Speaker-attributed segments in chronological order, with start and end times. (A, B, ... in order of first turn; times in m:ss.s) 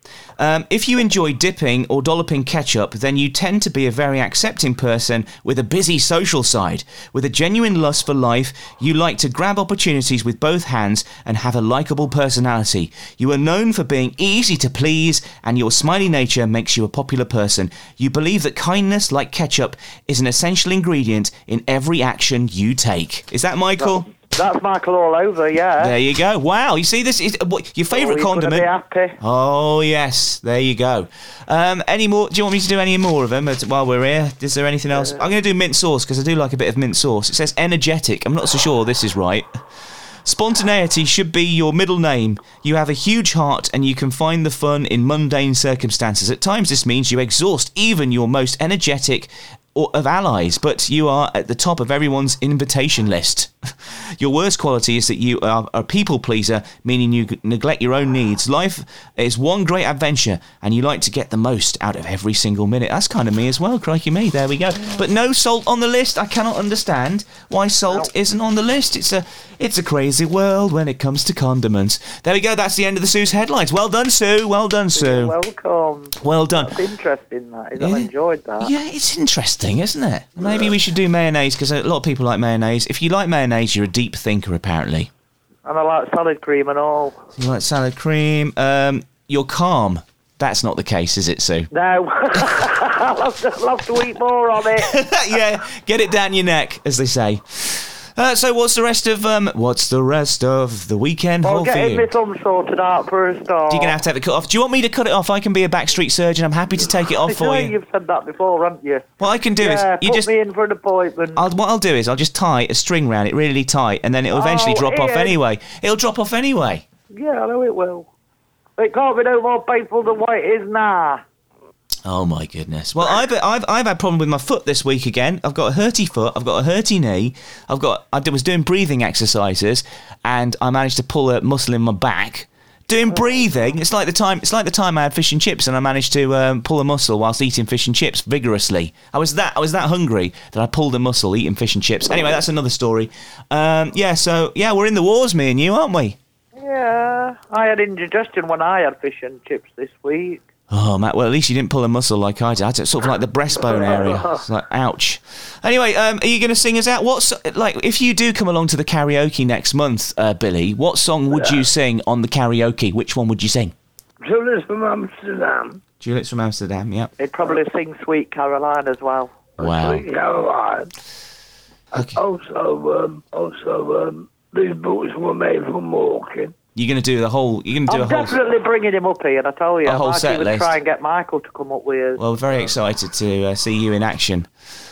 0:00.4-0:24.1 A
0:23.8-0:26.0 B
0:25.8-0:28.7 A
0:27.9-0:29.2 B
0:29.2-0:39.5 A
0:35.0-0:35.2 B
0:40.2-1:15.3 A
1:14.9-1:18.7 B
1:16.2-1:16.8 A
1:17.8-1:25.1 A
1:25.6-1:27.2 B
1:27.4-1:31.7 A
1:31.7-1:35.0 B
1:34.7-1:42.1 A
1:41.4-1:44.0 B
1:43.7-1:47.7 A
1:47.2-1:49.0 B
1:49.2-1:50.3 A
1:49.6-1:51.4 B
1:51.4-1:56.8 A
1:54.3-1:55.4 B
1:57.1-1:58.1 B
1:58.8-2:01.2 B
2:02.0-2:26.2 A
2:26.6-2:30.4 B
2:30.7-2:43.7 A
2:33.8-2:34.1 C
2:41.3-2:41.6 C
2:44.2-2:45.8 C
2:46.0-2:47.1 A
2:47.2-2:49.5 B
2:49.6-2:50.0 A
2:49.6-2:50.9 C
2:51.9-2:52.2 A
2:51.9-2:56.5 C
2:56.7-2:58.3 A
2:57.9-3:02.7 B
2:59.8-3:00.7 A
3:02.2-3:04.5 A